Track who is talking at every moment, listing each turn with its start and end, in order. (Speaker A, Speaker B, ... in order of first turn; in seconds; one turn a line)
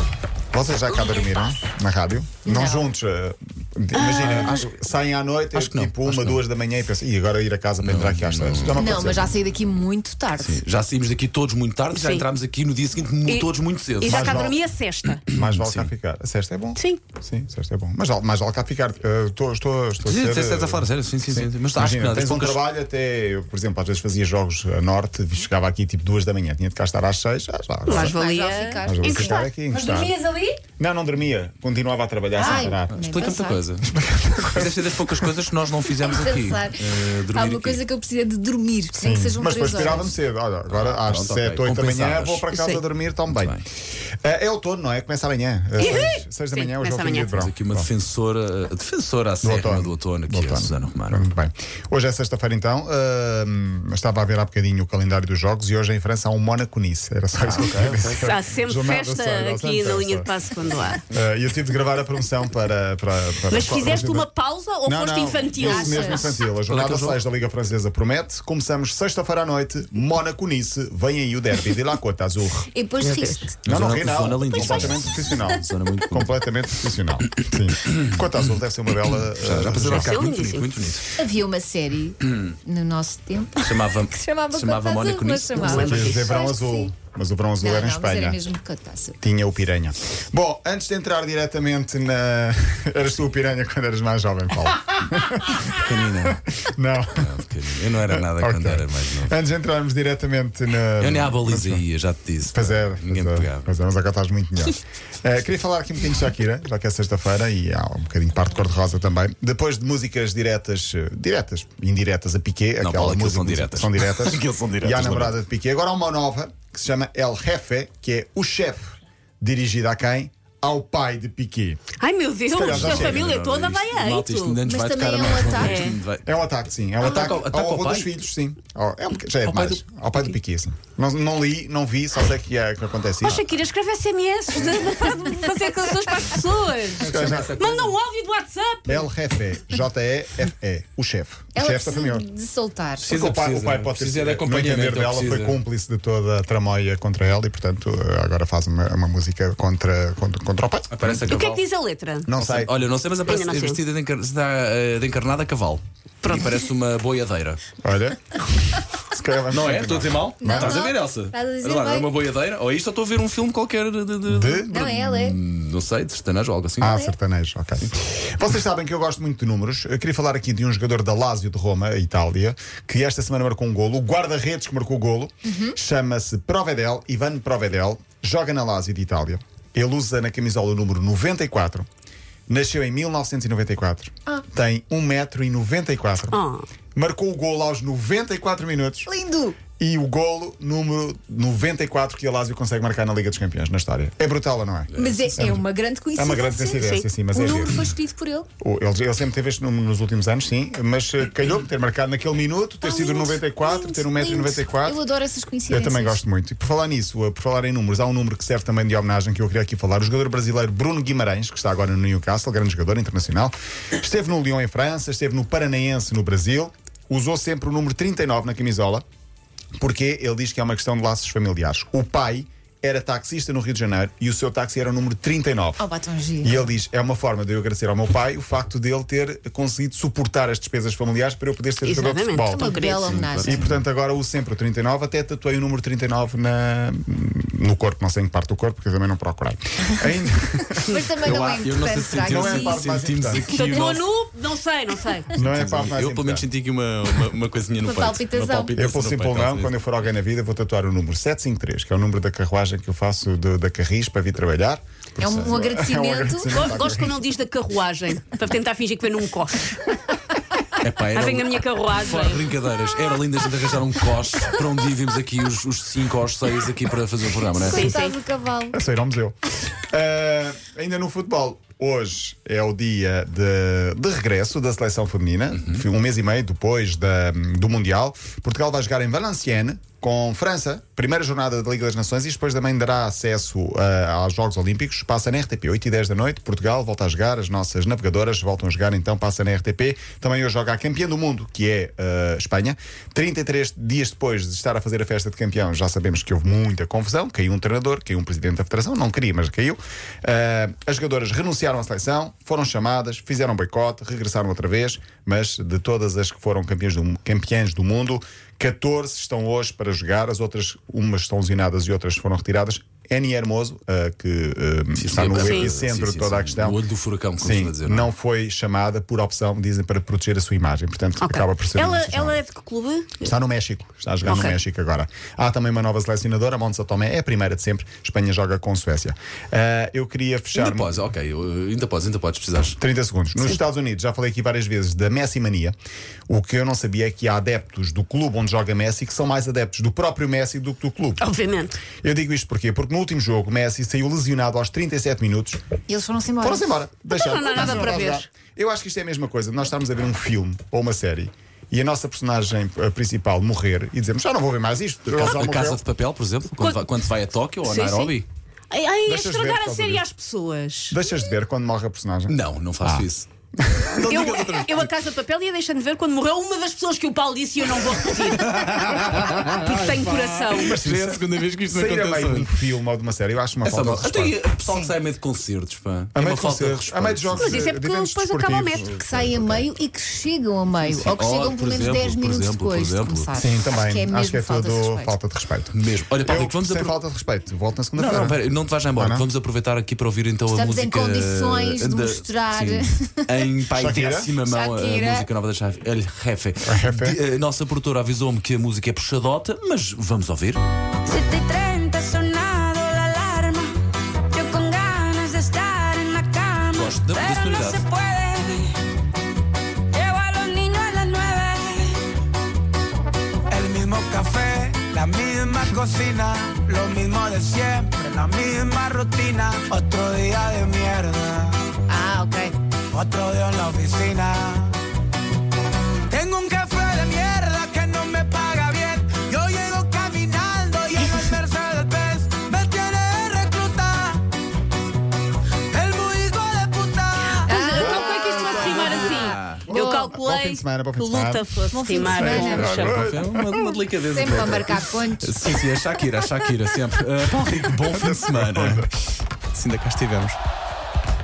Speaker A: 0.5-9.4
Speaker B: 2.5-2.9
Speaker C: 3.9-4.7
Speaker D: 5.5-6.4
Speaker D: 7.8-9.0
Speaker B: 8.7-10.6
Speaker D: 10.4-14.5
Speaker C: 11.9-12.2
Speaker C: 14.0-15.2
Speaker A: 14.0-14.6
Speaker D: 15.3-15.9
Speaker A: 15.3-28.2
Speaker C: 16.8-17.0
Speaker D: 20.1-22.6
Speaker C: 27.9-30.6
Speaker B: 27.9-29.5
Speaker A: 28.9-30.1
Speaker A: 30.8-33.0
Speaker B: 32.4-33.6
Speaker D: 32.9-33.9
Speaker A: 33.8-35.4
Speaker D: 34.5-37.8
Speaker B: 36.0-40.2
Speaker A: 39.0-43.6
Speaker D: 40.7-42.5
Speaker C: 42.5-42.8
Speaker D: 43.3-43.6
Speaker A: 44.2-47.9
Speaker C: 45.8-47.3
Speaker D: 47.3-51.3
Speaker A: 49.4-60.3
Speaker D: 57.4-58.4
Speaker C: 58.2-61.0
Speaker A: 61.1-64.3
Speaker C: 63.5-66.4
Speaker A: 64.8-72.7
Speaker B: 65.6-66.4
Speaker D: 66.7-67.2
Speaker B: 72.7-73.5
Speaker C: 73.0-73.5
Speaker D: 73.7-76.4
Speaker A: 73.7-80.2
Speaker D: 79.1-81.1
Speaker C: 79.8-80.7
Speaker B: 81.2-86.9
Speaker D: 83.6-86.0
Speaker C: 85.5-86.4
Speaker A: 85.7-88.4
Speaker B: 87.6-89.2
Speaker A: 89.2-97.3
Speaker D: 95.8-96.4
Speaker D: 97.1-99.4
Speaker A: 98.1-101.9
Speaker D: 101.0-103.7
Speaker A: 102.5-121.8
Speaker D: 112.8-115.4
Speaker C: 122.0-124.6
Speaker A: 122.5-123.2
Speaker D: 122.6-126.3
Speaker B: 124.6-125.9
Speaker C: 125.5-126.0
Speaker A: 126.2-133.4
Speaker D: 127.0-128.2
Speaker D: 129.4-129.8
Speaker C: 133.2-139.1
Speaker A: 137.0-137.6
Speaker D: 137.0-137.9
Speaker A: 138.9-142.3
Speaker B: 141.6-143.1
Speaker D: 143.0-145.6
Speaker A: 143.1-151.4
Speaker D: 150.9-151.6
Speaker C: 151.3-152.3
Speaker A: 152.3-152.7
Speaker D: 152.3-157.6
Speaker C: 153.2-153.8
Speaker C: 156.2-156.5
Speaker A: 157.8-160.8
Speaker D: 159.5-167.1
Speaker B: 160.4-162.1
Speaker A: 164.3-164.9
Speaker B: 164.7-165.4
Speaker A: 166.8-181.9
Speaker B: 166.8-167.1
Speaker B: 175.5-175.8
Speaker A: 182.5-186.4
Speaker C: 186.3-186.7
Speaker A: 186.9-189.1
Speaker B: 189.1-189.6
Speaker A: 189.8-195.6
Speaker D: 194.9-195.6
Speaker B: 195.0-198.5
Speaker A: 196.2-197.9
Speaker C: 196.8-197.1
Speaker A: 198.6-205.0
Speaker B: 202.8-206.2
Speaker A: 205.7-219.1
Speaker A: 219.8-225.9
Speaker B: 225.8-226.7
Speaker A: 226.4-243.7
Speaker C: 231.8-233.2
Speaker B: 232.5-233.7
Speaker D: 233.0-233.8
Speaker B: 240.9-242.9
Speaker D: 241.2-244.0
Speaker C: 243.5-245.3
Speaker A: 245.3-246.5
Speaker D: 245.4-249.8
Speaker B: 247.8-248.7
Speaker A: 248.8-257.2
Speaker B: 255.2-256.6
Speaker D: 255.2-255.5
Speaker C: 256.5-259.8
Speaker D: 260.8-268.0
Speaker C: 261.1-262.5
Speaker B: 267.6-268.8
Speaker C: 267.6-268.2
Speaker A: 268.7-316.8
Speaker D: 275.6-275.8
Speaker D: 314.9-318.1
Speaker C: 315.2-315.7
Speaker A: 317.4-322.4
Speaker C: 321.2-323.3
Speaker A: 323.2-330.9
Speaker C: 324.2-324.6
Speaker D: 330.5-332.8
Speaker A: 332.8-335.8
Speaker A: 336.3-341.2
Speaker C: 341.2-341.8
Speaker A: 342.0-345.6
Speaker B: 345.9-346.7
Speaker A: 346.4-355.8
Speaker C: 347.1-348.3
Speaker B: 347.6-348.1
Speaker D: 355.1-358.3
Speaker C: 357.6-358.2
Speaker C: 358.7-361.0
Speaker A: 359.1-360.0
Speaker A: 360.9-364.0
Speaker D: 362.3-364.9
Speaker C: 364.1-370.8
Speaker D: 368.3-372.5
Speaker A: 370.6-374.4
Speaker D: 373.6-377.6
Speaker A: 376.1-379.7
Speaker C: 377.4-378.9
Speaker B: 378.8-385.2
Speaker D: 380.8-383.3
Speaker A: 383.4-388.4
Speaker D: 385.7-387.0
Speaker D: 388.0-400.6
Speaker A: 389.0-389.3
Speaker B: 390.5-393.4
Speaker A: 393.7-394.3
Speaker B: 394.4-395.3
Speaker A: 396.6-397.2
Speaker E: 401.1-408.9
Speaker D: 406.7-407.9
Speaker E: 409.9-412.1
Speaker F: 413.5-421.6
Speaker B: 421.9-422.5
Speaker F: 422.9-424.8
Speaker F: 426.1-434.2
Speaker F: 435.7-437.7
Speaker C: 437.3-443.1
Speaker B: 437.5-440.1
Speaker A: 437.7-439.1
Speaker D: 439.0-439.6
Speaker A: 439.6-441.5
Speaker B: 441.7-442.7
Speaker A: 442.0-443.7
Speaker D: 442.3-448.9
Speaker B: 444.0-445.8
Speaker A: 444.3-444.6
Speaker A: 447.9-448.9
Speaker D: 449.5-450.4